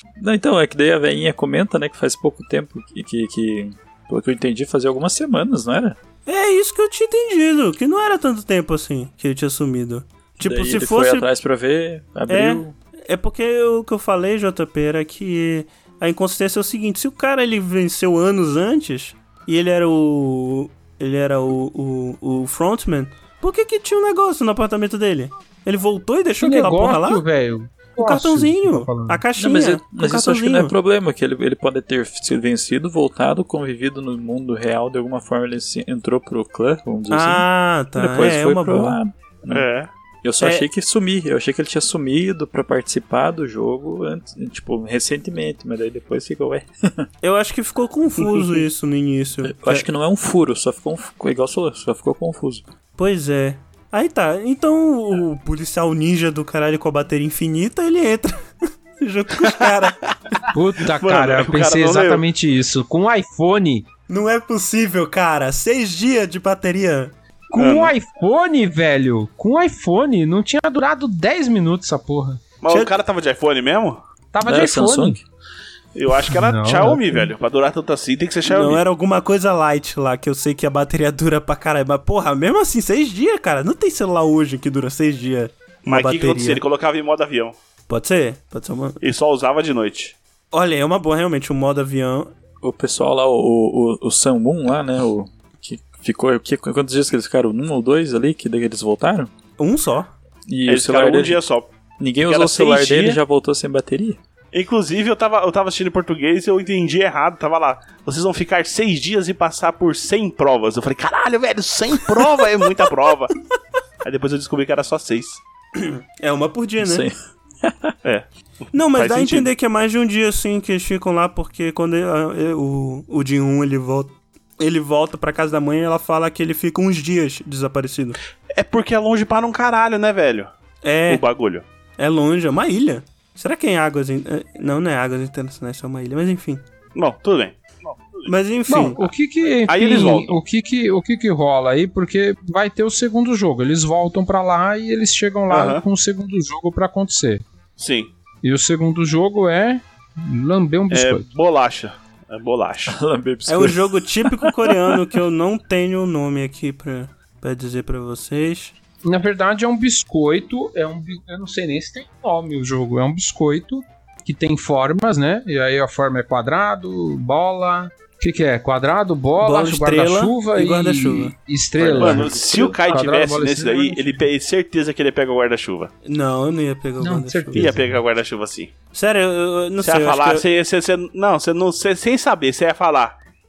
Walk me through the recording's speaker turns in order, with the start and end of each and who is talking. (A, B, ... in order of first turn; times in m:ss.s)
0:00.2-0:06.0 A
0:06.3-0:11.3 B
0:10.4-0:12.7 A
0:12.3-0:27.2 B
0:26.4-0:29.2 C
0:28.0-0:30.7 B
0:29.4-0:39.6 A
0:37.1-0:39.0 B
0:39.5-0:39.9 D
0:40.2-0:47.1 A
0:47.2-0:49.9 B
0:49.4-0:52.6 A
0:53.0-0:58.4 B
0:59.0-1:00.4 B
1:00.5-1:03.9 C
1:01.0-1:02.2 D
1:04.1-1:07.1 B
1:07.5-1:12.4 C
1:07.6-1:07.9 D
1:12.6-1:14.0 D
1:12.7-1:12.9 B
1:14.3-1:15.2 C
1:14.4-1:15.2 A
1:15.9-1:18.8 D
1:16.3-1:17.3 C
1:18.4-1:26.6 B
1:25.9-1:27.6 D
1:27.9-1:29.0 B
1:29.0-1:30.2 D
1:30.5-1:32.3 B
1:32.6-1:39.3 A
1:39.6-1:40.1 B
1:40.5-1:41.4 A
1:40.7-1:41.7 D
1:42.0-1:44.2 A
1:42.2-1:43.2 D
1:44.5-1:53.4 D
1:54.0-1:55.4 D
1:55.8-1:57.1 B
1:56.8-1:57.9 A
1:58.0-1:59.5 D
1:58.7-2:08.2 B
2:08.5-2:10.5 D
2:10.8-2:11.2 B
2:11.1-2:11.6 D
2:12.0-2:16.6 B
2:17.0-2:18.3 D
2:18.3-2:19.1 B
2:18.7-2:27.4 C
2:19.7-2:20.4 D
2:25.5-2:25.8 D
2:27.8-2:28.1 D
2:28.4-2:31.3 C
2:30.9-2:33.0 D
2:32.9-2:35.0 A
2:33.5-2:38.8 B
2:39.0-2:54.2 C
2:49.4-2:51.3 B
2:51.8-2:53.0 A
2:52.0-2:55.9 D
2:56.0-2:57.7 B
2:57.0-2:58.0 C
2:57.6-2:58.7 D
2:58.9-3:00.4 B
2:59.8-3:03.2 D